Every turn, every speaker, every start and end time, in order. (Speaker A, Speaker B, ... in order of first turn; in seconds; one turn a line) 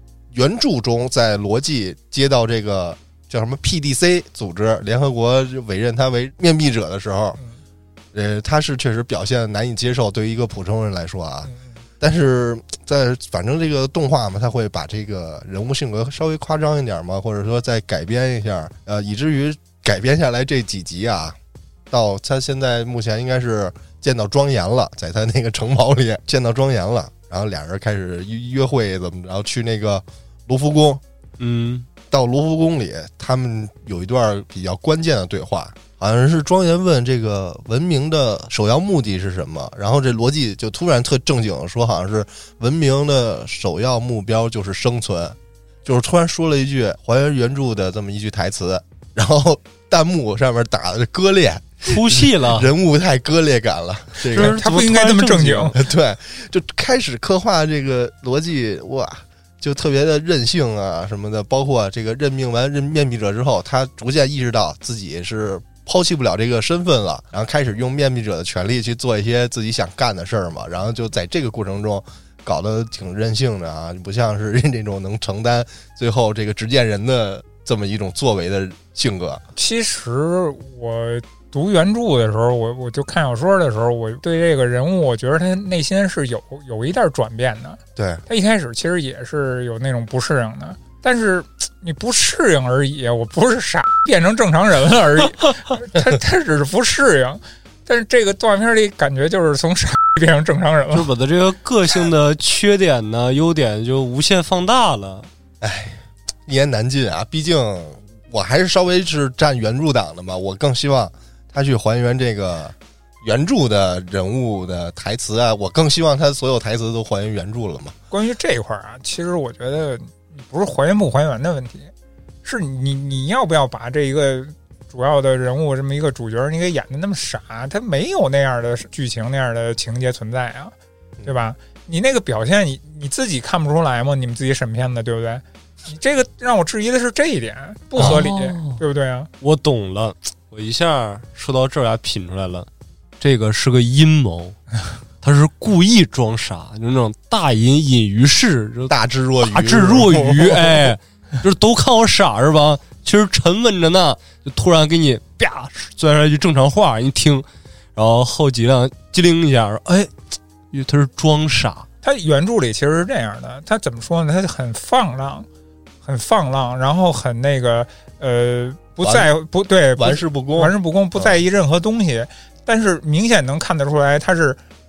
Speaker A: 0.3-7.4
Speaker A: 8.1-21.4
Speaker A: 21.9-31.0
Speaker B: 31.4-31.9
Speaker A: 32.1-54.6
Speaker B: 51.9-52.7
Speaker B: 54.3-55.8
Speaker C: 54.4-55.8
Speaker A: 55.8-79.4
Speaker C: 79.5-101.1
Speaker A: 88.0-88.2
Speaker B: 100.9-105.3
Speaker A: 105.6-118.0
Speaker C: 118.1-121.9
Speaker C: 122.4-130.7
Speaker C: 131.2-139.3
Speaker B: 138.0-138.8
Speaker B: 139.4-142.7
Speaker B: 143.2-144.6
Speaker B: 145.2-157.4
Speaker A: 148.9-150.9
Speaker B: 158.0-160.1
Speaker B: 160.7-161.9
Speaker C: 162.0-165.5
Speaker C: 166.0-174.6
Speaker A: 169.0-169.3
Speaker A: 170.0-171.3